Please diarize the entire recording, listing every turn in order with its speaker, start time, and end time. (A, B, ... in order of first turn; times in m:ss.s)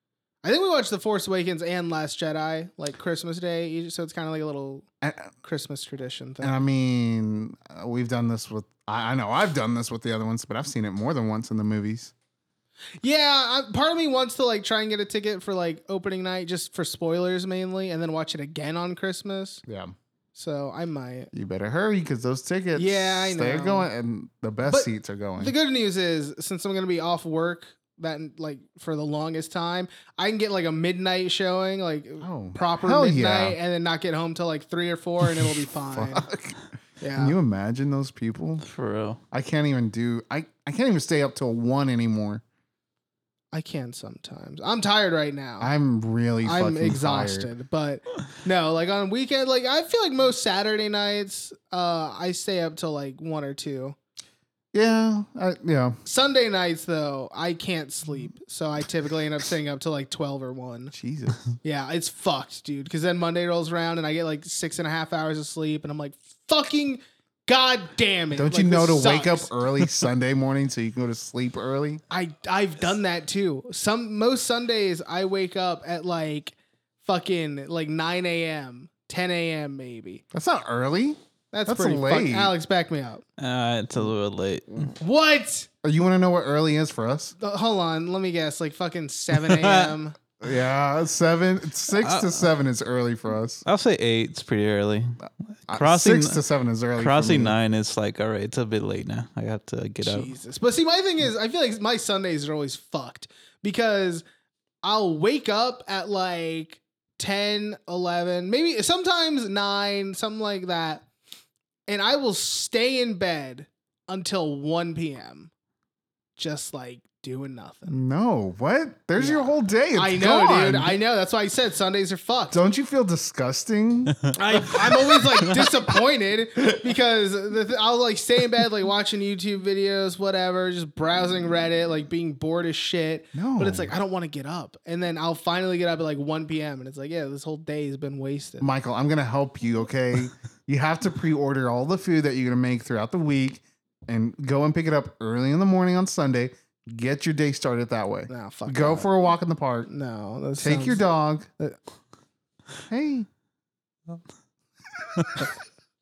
0:00.4-0:04.8 A
0:05.0-0:05.3 B
0:05.4-0:06.6 A
0:06.4-0:12.1 B
0:13.0-0:19.6 A
0:19.6-0:19.9 B
0:20.3-0:21.3 A
0:21.3-0:25.5 B
0:22.8-0:23.9 A
0:24.6-0:36.3 A
0:32.2-0:33.6 B
0:35.9-0:36.6 B
0:37.0-0:37.4 A
0:37.2-0:38.6 B
0:38.6-0:39.2 C
0:39.3-0:42.4 B
0:43.5-0:45.7 A
0:45.6-0:47.5 B
0:46.4-0:54.0 A
0:54.7-0:56.0 B
0:56.0-1:00.9 A
1:00.9-1:01.4 B
1:01.6-1:09.5 A
1:08.3-1:12.0 B
1:12.1-1:20.2 A
1:20.3-1:22.5 B
1:21.5-1:23.2 A
1:23.4-1:24.9 C
1:25.0-1:25.7 A
1:25.8-1:27.3 B
1:27.4-1:30.2 A
1:29.5-1:29.9 C
1:30.4-1:33.6 B
1:32.0-1:32.4 C
1:33.6-1:36.4 C
1:35.7-1:37.6 B
1:37.0-1:40.3 C
1:40.0-1:44.2 A
1:44.8-1:51.0 A
1:51.9-1:55.5 A
1:56.4-1:58.0 A
1:57.9-2:01.0 B
1:59.2-2:02.6 A
2:02.5-2:05.5 B
2:04.3-2:18.7 A
2:13.3-2:13.9 B
2:18.6-2:29.9 B
2:28.3-2:29.1 A
2:29.9-2:31.0 A
2:30.6-2:31.5 B
2:32.9-2:33.3 B